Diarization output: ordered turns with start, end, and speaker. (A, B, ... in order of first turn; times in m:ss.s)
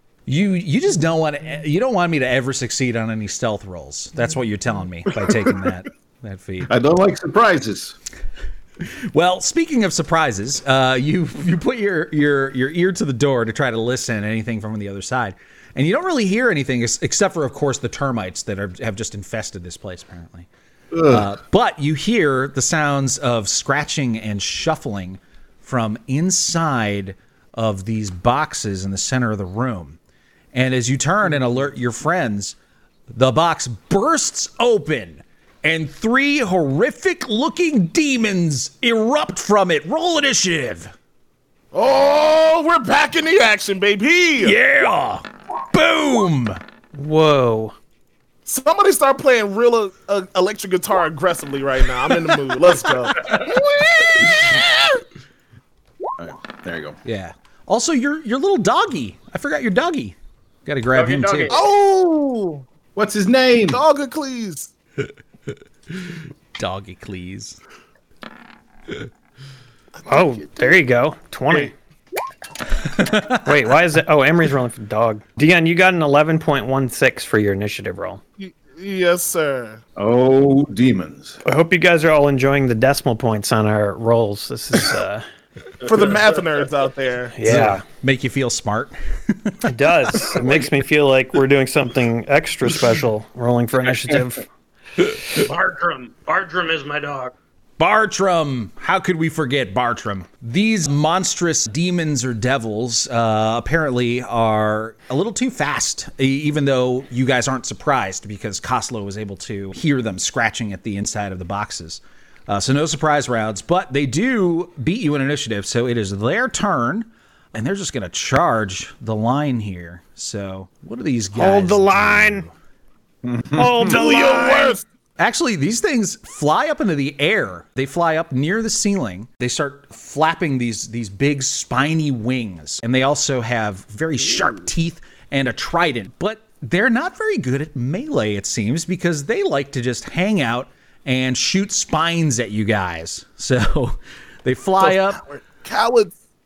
0:00.3-0:06.7 A
0:06.7-0:08.0 B
0:09.1-0:20.5 A
0:20.9-0:21.3 B
0:21.1-0:30.0 A
0:30.5-0:32.6 A
0:33.1-0:40.9 A
0:41.7-0:44.6 C
0:44.4-0:46.6 A
0:46.9-0:47.8 D
0:48.4-0:54.9 C
0:56.2-0:57.0 B
0:57.0-1:01.6 A
1:00.9-1:01.7 E
1:01.5-1:02.6 C
1:03.0-1:03.8 B
1:03.7-1:04.7 C
1:06.6-1:07.6 A
1:10.1-1:11.7 D
1:10.1-1:10.6 C
1:12.9-1:13.4 A
1:13.4-1:18.2 D
1:18.4-1:19.8 C
1:20.0-1:21.4 B
1:21.4-1:25.2 D
1:25.8-1:27.5 C
1:25.9-1:26.2 E
1:27.4-1:27.8 D
1:27.5-1:29.7 A
1:29.6-1:34.4 D
1:35.3-1:37.3 E
1:37.8-2:02.5 A
2:01.4-2:02.5 D
2:03.2-2:03.8 B
2:03.5-2:04.8 D
2:03.7-2:04.8 C
2:05.2-2:25.2 A
2:24.8-2:26.1 C